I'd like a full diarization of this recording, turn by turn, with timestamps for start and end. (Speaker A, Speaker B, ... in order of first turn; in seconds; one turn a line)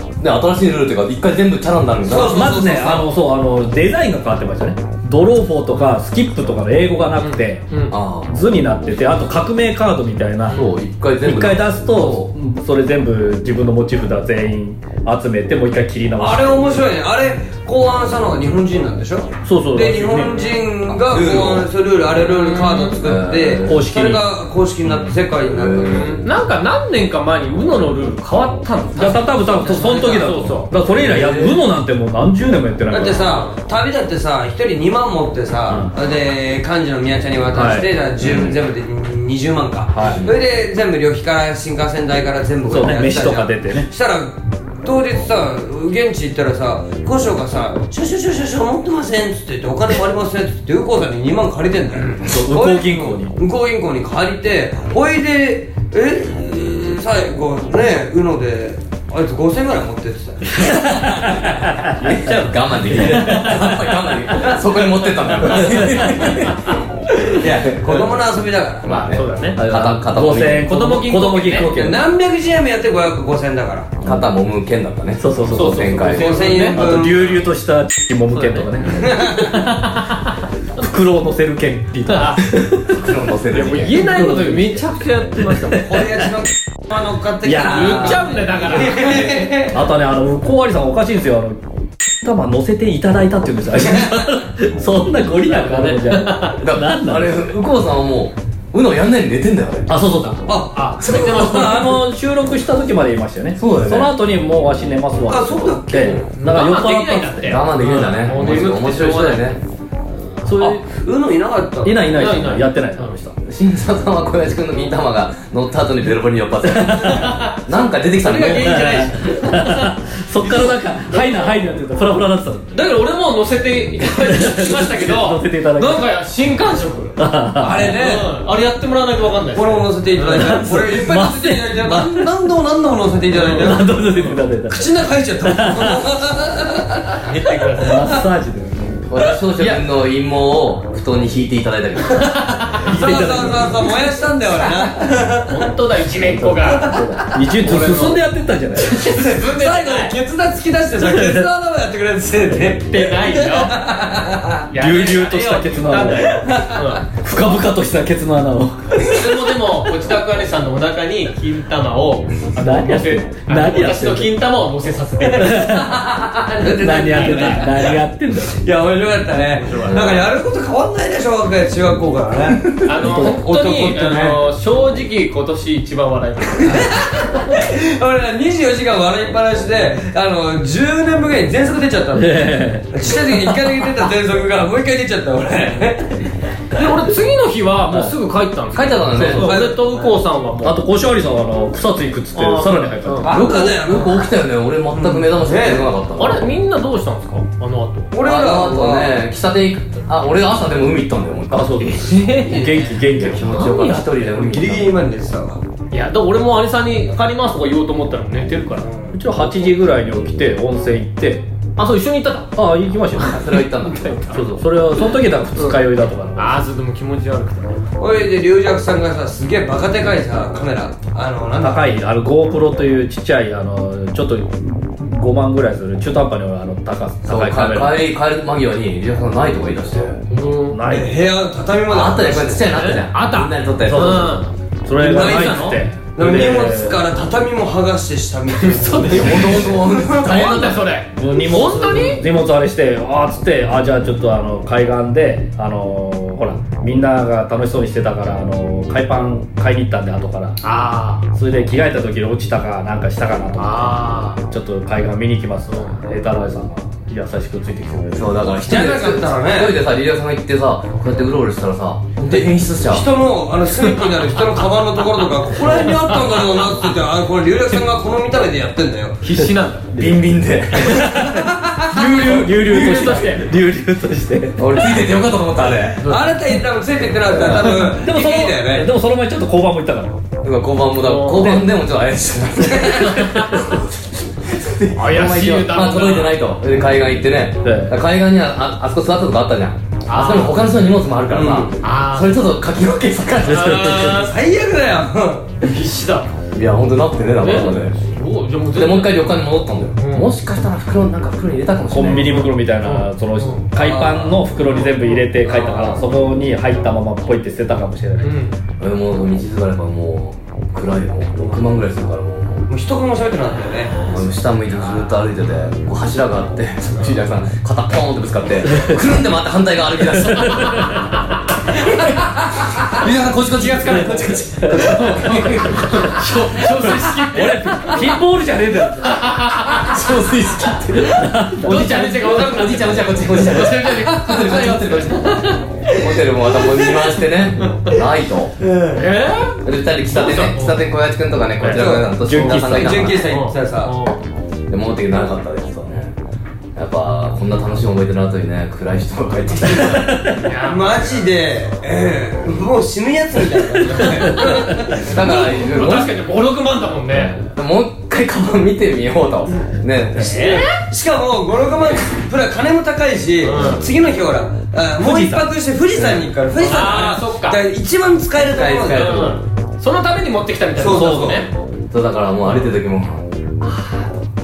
Speaker A: 0.2-2.5
Speaker B: 2.0-3.1
Speaker C: 2.1-10.7
Speaker D: 7.2-8.0
Speaker A: 7.9-8.3
Speaker A: 10.5-12.3
Speaker C: 11.2-16.8
Speaker B: 16.2-26.2
Speaker C: 19.4-20.3
Speaker A: 20.9-21.7
Speaker D: 22.2-23.0
Speaker A: 23.0-23.9
Speaker C: 23.6-24.2
Speaker A: 24.9-26.3
Speaker D: 25.9-30.7
Speaker C: 28.9-33.5
Speaker B: 29.6-30.3
Speaker A: 30.9-31.6
Speaker B: 32.9-60.9
Speaker C: 37.5-37.9
Speaker A: 38.2-38.6
Speaker C: 39.9-40.2
Speaker A: 40.0-40.4
Speaker C: 42.7-43.9
Speaker C: 52.2-53.4
Speaker A: 60.8-66.8
Speaker C: 61.4-62.3
Speaker D: 62.1-62.5
Speaker C: 62.9-64.6
Speaker D: 63.1-63.5
Speaker C: 65.6-66.3
Speaker B: 67.2-69.2
Speaker A: 67.4-68.2
Speaker A: 68.8-70.7
Speaker D: 68.9-69.6
Speaker C: 69.5-72.0
Speaker D: 70.6-71.8
Speaker B: 71.3-74.0
Speaker A: 74.0-76.6
Speaker C: 75.2-80.0
Speaker D: 75.5-76.8
Speaker B: 76.0-77.4
Speaker D: 78.3-78.8
Speaker B: 78.9-79.5
Speaker D: 79.6-80.1
Speaker C: 80.8-83.0
Speaker D: 82.1-82.5
Speaker A: 82.9-84.0
Speaker D: 83.5-85.9
Speaker C: 83.9-86.2
Speaker B: 85.8-89.8
Speaker C: 87.5-88.3
Speaker D: 87.7-89.5
Speaker C: 89.2-91.6
Speaker C: 92.2-97.5
Speaker D: 95.2-96.6
Speaker A: 96.6-100.3
Speaker C: 99.9-107.6
Speaker B: 100.5-101.9
Speaker D: 100.7-102.0
Speaker A: 103.6-104.1
Speaker B: 105.3-106.3
Speaker D: 106.4-109.6
Speaker A: 107.5-109.6
Speaker C: 110.4-110.8
Speaker B: 110.6-112.1
Speaker C: 111.8-113.4
Speaker D: 112.1-113.2
Speaker A: 113.4-119.0
Speaker C: 116.6-117.5
Speaker D: 117.2-120.0
Speaker B: 118.4-119.2
Speaker C: 118.6-122.8
Speaker D: 121.1-121.6
Speaker D: 122.7-127.2
Speaker C: 124.0-126.1
Speaker C: 127.2-128.0
Speaker B: 127.6-128.3
Speaker D: 127.8-130.7
Speaker B: 129.5-138.1
Speaker C: 130.3-132.3
Speaker D: 133.4-133.8
Speaker C: 133.5-136.1
Speaker D: 137.2-138.2
Speaker C: 137.7-139.1
Speaker A: 139.1-142.4
Speaker B: 142.6-145.7
Speaker C: 142.8-143.9
Speaker D: 145.5-148.3
Speaker A: 146.3-147.3
Speaker B: 146.6-148.0
Speaker C: 147.3-149.0
Speaker D: 148.8-150.2
Speaker B: 149.0-154.7
Speaker C: 151.0-151.5
Speaker D: 152.7-153.8
Speaker D: 154.7-157.1
Speaker C: 154.8-156.5
Speaker B: 156.3-157.0
Speaker C: 157.1-159.6
Speaker D: 159.0-165.9
Speaker C: 162.6-164.4
Speaker C: 165.3-166.1
Speaker B: 165.6-168.0
Speaker C: 166.6-168.7
Speaker D: 166.8-167.6
Speaker B: 168.6-174.4
Speaker D: 169.7-170.1
Speaker A: 169.8-170.3
Speaker D: 172.8-177.0
Speaker C: 172.9-174.3
Speaker B: 176.6-186.3
Speaker C: 182.2-183.5
Speaker D: 186.7-190.8
Speaker C: 187.9-188.2
Speaker A: 188.7-189.6
Speaker C: 189.2-189.6
Speaker B: 189.3-190.2
Speaker C: 190.6-193.4
Speaker D: 192.3-193.4
Speaker B: 193.2-194.3
Speaker A: 193.2-196.5
Speaker B: 194.9-195.9
Speaker D: 196.2-198.1
Speaker B: 198.1-199.2
Speaker A: 198.2-202.4
Speaker C: 201.5-204.1
Speaker D: 201.8-204.3
Speaker B: 202.4-202.9
Speaker A: 203.1-205.0
Speaker B: 204.2-205.6
Speaker D: 205.9-209.2
Speaker C: 209.1-211.4
Speaker D: 211.8-212.6
Speaker C: 212.6-213.6
Speaker D: 213.2-215.8
Speaker A: 213.2-214.3
Speaker C: 214.3-216.6
Speaker D: 216.4-217.8
Speaker B: 218.0-222.0
Speaker C: 221.6-228.0
Speaker A: 227.3-230.2
Speaker D: 230.3-230.8
Speaker C: 230.7-231.2
Speaker B: 230.9-232.8
Speaker A: 231.9-234.4
Speaker D: 232.7-235.8
Speaker C: 233.9-237.0
Speaker B: 235.0-240.3
Speaker D: 238.6-242.2
Speaker A: 239.1-240.8
Speaker C: 241.2-250.6
Speaker D: 250.6-251.3
Speaker C: 251.3-258.4
Speaker D: 253.6-254.4
Speaker D: 255.7-256.0
Speaker A: 258.1-263.1
Speaker B: 258.7-259.8
Speaker B: 262.3-269.2
Speaker D: 265.6-266.6
Speaker D: 269.2-269.9
Speaker C: 269.9-274.9
Speaker A: 269.9-271.3
Speaker A: 272.0-273.3
Speaker D: 272.2-273.5
Speaker A: 274.6-276.1
Speaker D: 276.0-276.4
Speaker B: 276.0-278.9
Speaker C: 277.4-280.2
Speaker A: 277.4-277.7
Speaker A: 280.4-283.9
Speaker D: 281.0-281.6
Speaker A: 284.4-294.3
Speaker D: 284.9-286.4
Speaker C: 287.6-288.0
Speaker D: 290.1-290.7
Speaker B: 291.3-291.8
Speaker D: 291.8-292.5
Speaker D: 293.4-294.4
Speaker B: 294.1-295.5
Speaker D: 295.6-296.3
Speaker A: 296.5-298.0
Speaker D: 297.4-300.3
Speaker A: 298.7-302.4
Speaker C: 301.9-308.4
Speaker D: 302.1-303.7
Speaker B: 303.8-304.4
Speaker D: 304.6-305.9
Speaker D: 308.2-308.6
Speaker A: 308.8-312.7
Speaker B: 312.7-314.1
Speaker A: 314.0-321.0
Speaker D: 316.9-317.3
Speaker C: 320.2-321.1
Speaker A: 321.7-327.0
Speaker D: 323.6-328.2
Speaker C: 324.6-325.2
Speaker C: 326.0-329.5
Speaker D: 329.0-330.1
Speaker A: 329.7-338.6
Speaker C: 331.0-332.8
Speaker D: 331.6-335.6
Speaker D: 337.6-337.9
Speaker B: 338.6-339.1
Speaker D: 338.9-340.9
Speaker A: 339.6-343.2
Speaker C: 341.6-343.2
Speaker B: 341.7-343.9
Speaker D: 343.2-344.2
Speaker A: 344.7-346.1
Speaker A: 346.8-350.2
Speaker C: 349.8-350.4
Speaker D: 350.4-351.1
Speaker B: 350.6-355.1
Speaker A: 354.9-356.2
Speaker D: 355.1-357.4
Speaker A: 357.1-360.6
Speaker D: 360.1-360.8
Speaker B: 360.7-369.4
Speaker D: 363.4-363.9
Speaker C: 365.0-365.5
Speaker D: 366.6-367.6
Speaker A: 368.5-369.4
Speaker D: 368.9-371.5
Speaker B: 370.8-371.5
Speaker C: 370.9-371.4
Speaker A: 371.9-374.1